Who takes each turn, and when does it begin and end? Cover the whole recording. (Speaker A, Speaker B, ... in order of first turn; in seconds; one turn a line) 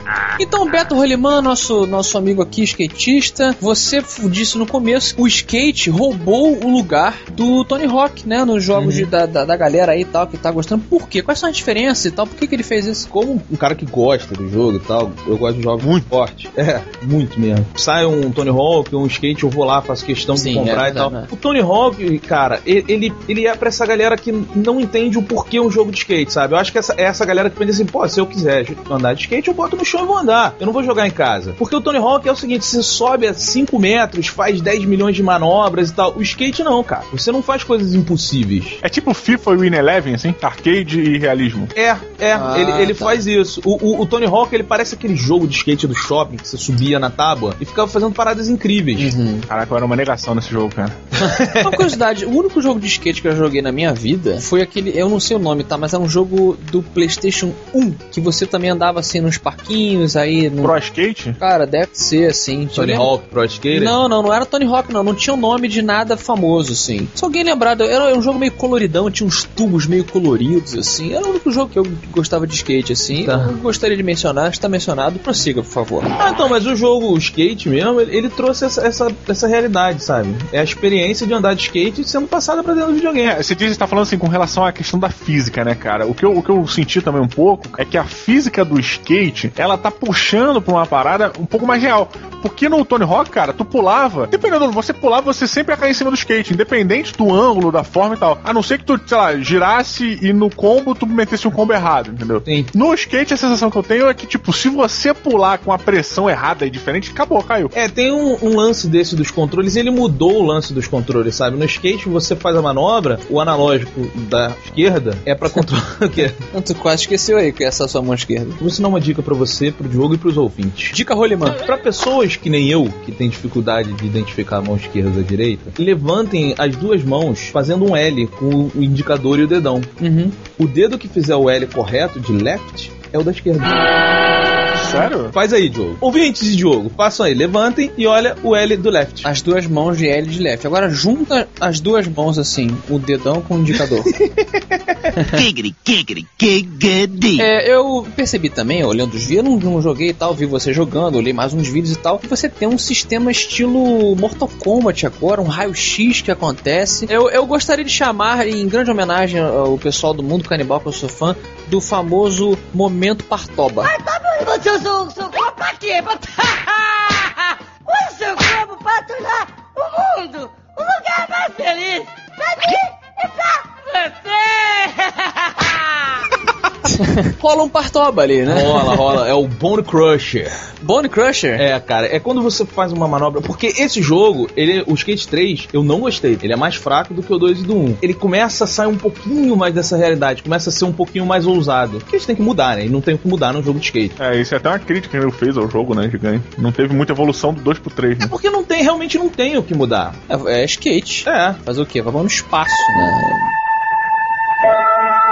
Speaker A: 0.4-13.1
Speaker B: 8.7-9.1
Speaker B: 13.1-38.8
Speaker C: 15.8-16.1
Speaker A: 20.4-21.3
Speaker C: 38.8-41.7
Speaker B: 41.8-49.1
Speaker A: 42.3-43.2
Speaker A: 49.0-49.5
Speaker C: 49.5-51.0
Speaker B: 51.2-51.9
Speaker A: 51.5-60.7
Speaker C: 60.6-61.4
Speaker A: 61.4-63.1
Speaker B: 62.8-64.0
Speaker A: 63.7-76.1
Speaker B: 73.2-73.5
Speaker B: 76.2-83.3
Speaker C: 83.2-107.7
Speaker B: 102.5-102.7
Speaker B: 107.7-116.4
Speaker A: 116.5-118.6
Speaker B: 118.6-121.0
Speaker A: 120.9-121.6
Speaker B: 121.6-129.9
Speaker A: 130.0-130.4
Speaker B: 130.6-133.8
Speaker C: 134.8-135.4
Speaker B: 134.9-139.3
Speaker A: 139.2-144.1
Speaker B: 144.1-145.1
Speaker D: 145.3-147.5
Speaker A: 147.4-163.9
Speaker E: 163.8-176.2
Speaker A: 176.9-179.1
Speaker B: 178.5-180.6
Speaker A: 180.8-181.7
Speaker B: 181.6-194.2
Speaker C: 194.2-198.3
Speaker B: 198.2-200.2
Speaker A: 200.3-203.5
Speaker B: 201.3-201.6